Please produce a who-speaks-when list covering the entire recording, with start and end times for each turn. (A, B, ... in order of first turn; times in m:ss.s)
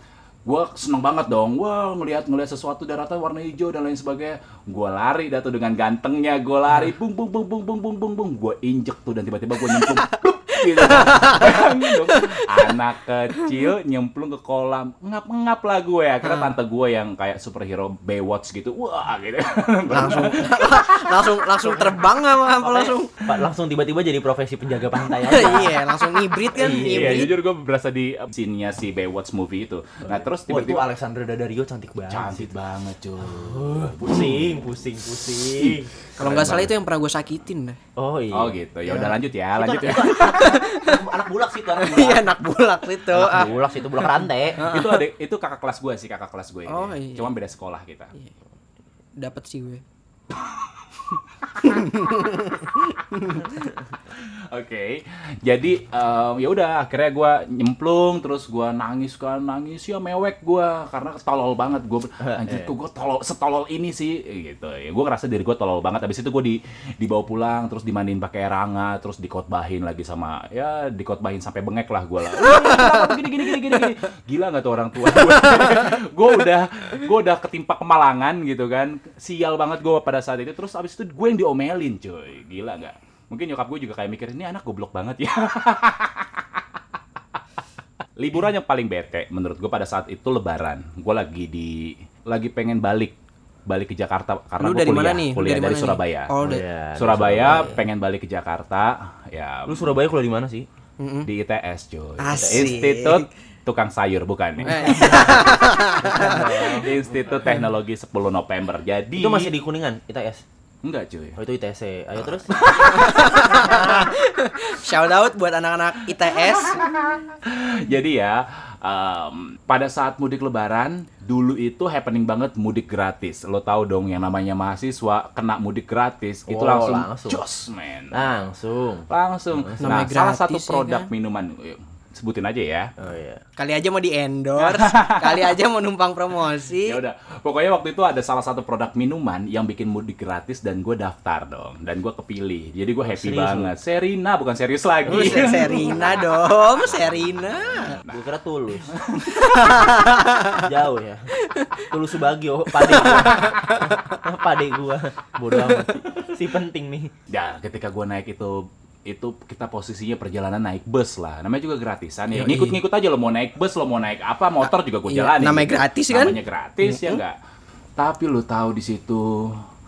0:00.4-0:21.3 A
0:09.7-0:12.7 B
0:16.2-0:16.5 B
0:19.9-0:23.2 B
0:21.6-0:27.3 C
0:25.2-0:27.3 B
0:26.7-0:30.9 A
0:30.0-0:32.5 C
0:32.1-0:34.6 A
0:33.2-0:36.7 C
0:35.6-0:36.7 A
0:36.2-0:37.8 B
0:38.0-0:42.3 C
0:38.3-0:40.4 A
0:40.0-0:41.1 B
0:41.8-0:43.5 B
0:43.1-0:44.8 C
0:43.3-0:43.6 A
0:44.6-0:45.0 B
0:44.6-0:48.1 A
0:46.7-0:47.3 B
0:49.2-0:49.8 B
0:51.6-0:53.7 B
0:54.1-1:26.6 A
1:02.2-1:02.7 C
1:12.5-1:13.1 B
1:28.2-1:33.2 A
1:33.7-1:36.3 A
1:34.6-1:36.6 B
1:36.4-1:37.8 C
1:37.0-1:40.0 A
1:39.7-1:40.7 C
1:41.0-1:41.3 B
1:41.3-1:45.5 A
1:42.2-1:43.3 B
1:42.4-1:42.7 C
1:44.6-1:46.9 B
1:44.6-1:47.3 C
1:46.5-1:49.5 A
1:49.2-1:50.4 C
1:50.8-1:51.4 A
1:51.4-1:54.1 C
1:52.5-1:53.0 A
1:52.7-1:56.8 B
1:56.4-2:08.3 A
2:06.5-2:07.4 C
2:08.1-2:09.9 C
2:09.1-2:12.9 A
2:09.8-2:11.1 B
2:13.0-2:13.4 C
2:13.6-2:17.0 B
2:14.6-2:15.6 A
2:16.8-2:28.2 A
2:23.0-2:23.7 C
2:25.1-2:26.2 C
2:25.1-2:28.0 B
2:28.1-2:29.0 C
2:28.9-2:29.8 A
2:29.3-2:30.7 B
2:30.5-2:37.1 C
2:31.4-2:31.9 B
2:32.8-2:34.2 B
2:35.5-2:35.9 B
2:37.3-2:47.4 A
2:42.3-2:42.8 B
2:45.1-2:46.4 B
2:46.9-2:47.2 B
2:48.0-2:49.6 A